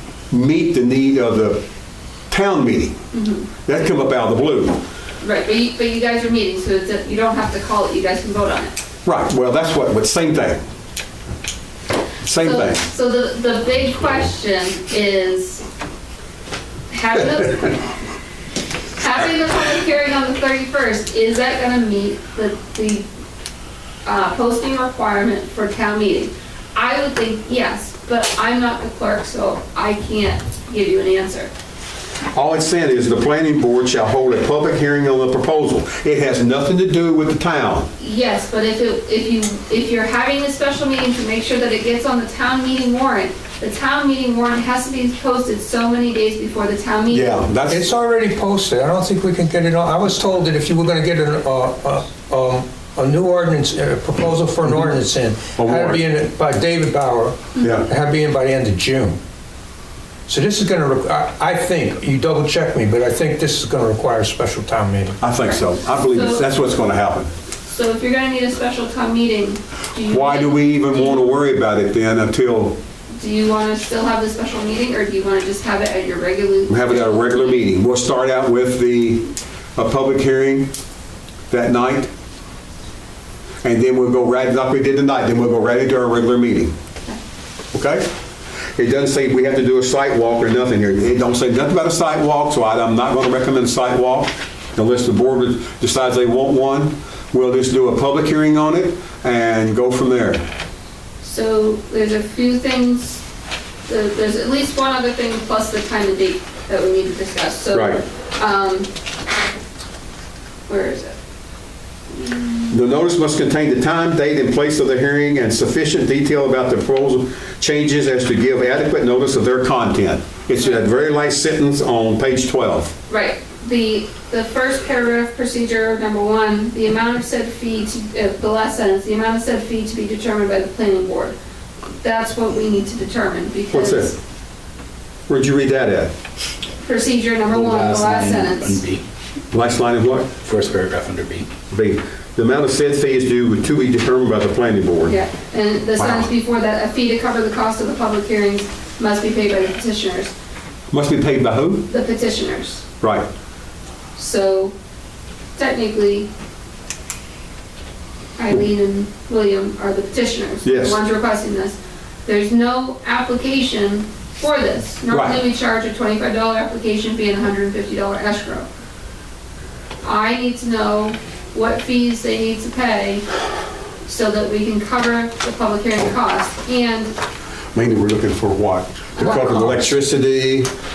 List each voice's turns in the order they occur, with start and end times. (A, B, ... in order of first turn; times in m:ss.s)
0:00.3-0:01.6 A
0:02.3-0:03.0 A
0:03.1-0:03.5 B
0:03.6-0:04.8 A
0:05.2-0:08.8 B
0:09.0-0:10.6 A
0:12.2-0:12.8 A
0:12.4-0:15.6 B
0:16.9-0:17.8 B
0:19.0-0:23.1 B
0:24.0-0:31.5 B
0:32.3-0:37.9 A
0:38.0-0:47.4 B
0:47.1-0:47.9 A
0:47.7-0:59.2 C
0:55.6-0:56.0 A
0:57.6-0:57.9 A
1:00.3-1:05.2 C
1:05.2-1:07.3 A
1:05.4-1:06.5 B
1:07.7-1:11.3 B
1:10.1-1:12.8 A
1:13.2-1:17.6 B
1:16.7-1:20.7 A
1:21.5-1:22.1 A
1:23.6-1:26.8 A
1:27.7-1:28.1 A
1:28.8-1:40.4 A
1:41.2-1:43.2 B
1:43.9-1:48.9 B
1:47.7-1:48.0 A
1:50.7-1:51.2 B
1:52.1-1:52.8 B
1:52.7-2:02.9 A
2:03.1-2:11.4 B
2:12.0-2:14.2 B
2:13.7-2:14.1 A
2:15.3-2:16.1 A
2:16.8-2:18.8 B
2:17.5-2:19.0 D
2:19.5-2:20.3 A
2:20.3-2:21.5 D
2:21.7-2:25.2 A
2:25.0-2:30.3 B
2:26.0-2:26.3 A
2:30.9-2:31.9 A
2:31.9-2:32.8 B
2:33.0-2:33.3 A
2:34.2-2:34.7 B
2:35.6-2:36.3 B
2:38.4-2:48.7 B
2:40.6-2:41.0 A
2:45.1-2:45.4 A
2:50.0-2:53.2 B
2:54.0-2:57.2 B
2:57.7-3:00.7 A
2:59.2-2:59.9 B